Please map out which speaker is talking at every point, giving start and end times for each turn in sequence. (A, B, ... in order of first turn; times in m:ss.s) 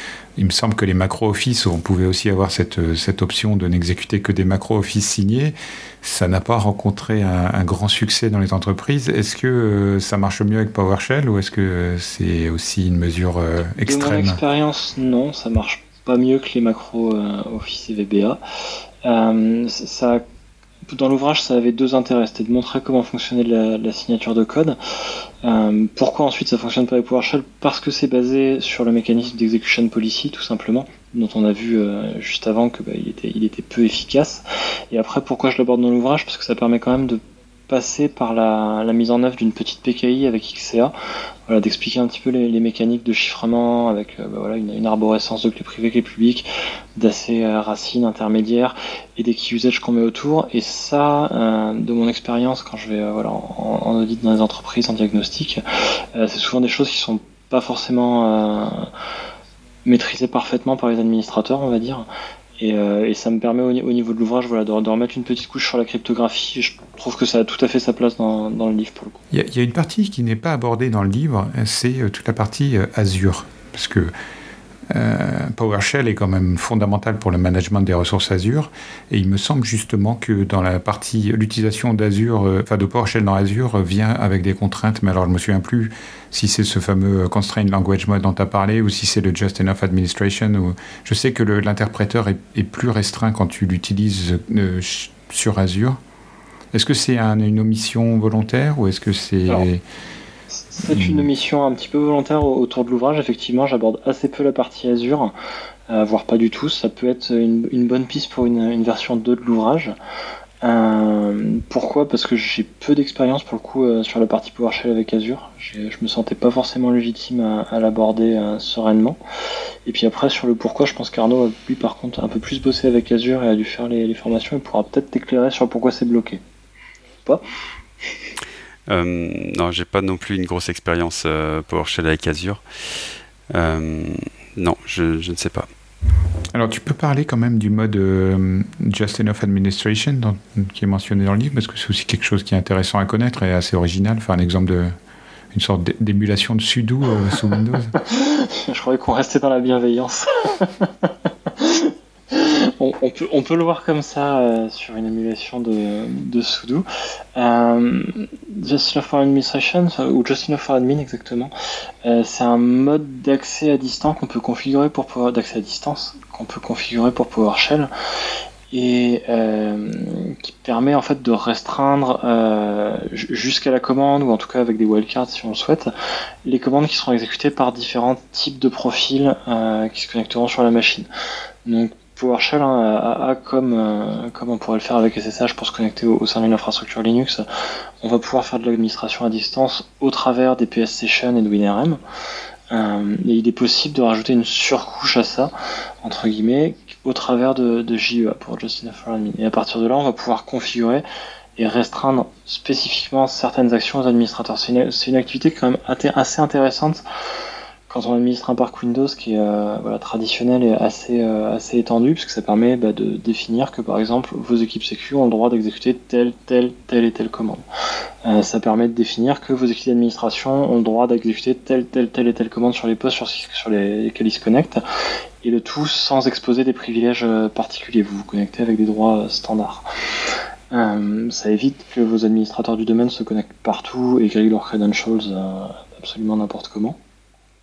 0:00.4-0:14.4 A
0:13.8-0:18.4 B
0:19.0-0:20.2 B
0:20.9-0:24.8 B
0:25.4-0:40.9 B
0:41.5-0:58.9 B
0:59.8-1:02.1 B
1:02.6-1:09.2 B
1:09.3-1:14.1 A
1:14.9-1:36.0 A
1:36.7-1:39.8 A
1:40.5-1:45.3 B
1:40.9-1:41.3 A
1:45.9-1:50.0 B
1:50.6-1:59.2 B
1:59.9-2:06.4 B
2:08.9-2:12.6 C
2:13.5-2:15.7 C
2:16.5-2:24.9 A
2:25.5-2:28.0 A
2:28.0-2:41.5 B
2:42.0-2:47.9 B
2:48.7-2:55.9 B
2:56.4-3:01.1 B
3:01.6-3:07.5 B
3:08.0-3:12.0 B
3:12.7-3:21.0 B
3:21.6-3:27.0 B
3:27.9-3:37.6 B
3:38.2-3:44.8 B
3:45.4-3:49.9 B
3:50.7-3:57.0 B